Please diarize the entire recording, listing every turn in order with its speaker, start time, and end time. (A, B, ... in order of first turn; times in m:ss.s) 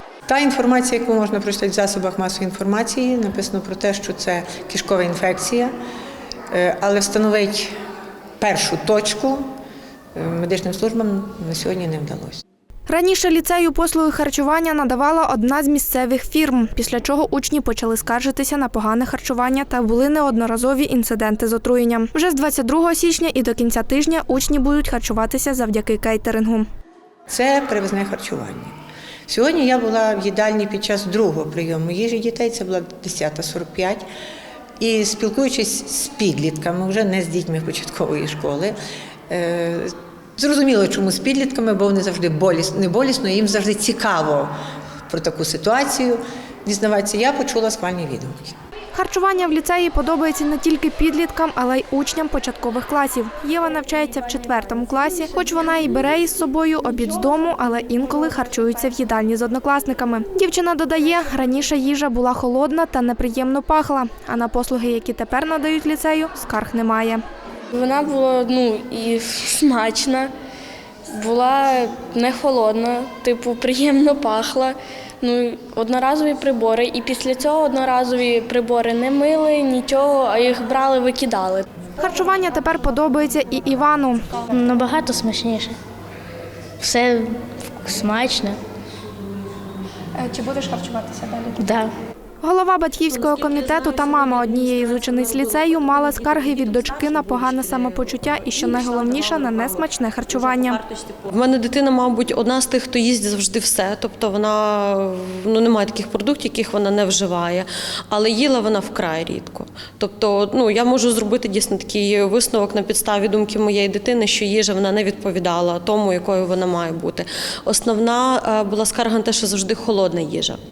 0:00.3-0:05.7 A
0:06.5-0:07.7 A
0:08.4-0:09.5 A
0:10.2-0:12.4 A
0:12.9-0:26.7 B
0:27.3-0:28.7 A
0:29.3-0:34.0 A
0:34.8-0:38.8 A
0:39.3-0:44.5 A
0:45.1-0:48.6 A
0:48.9-1:07.2 B
1:07.7-1:10.3 C
1:11.1-1:21.7 C
1:22.0-1:24.5 B
1:24.5-1:25.8 D
1:26.8-1:28.6 D
1:30.2-1:31.7 B
1:32.4-1:40.8 B
1:41.1-2:00.6 E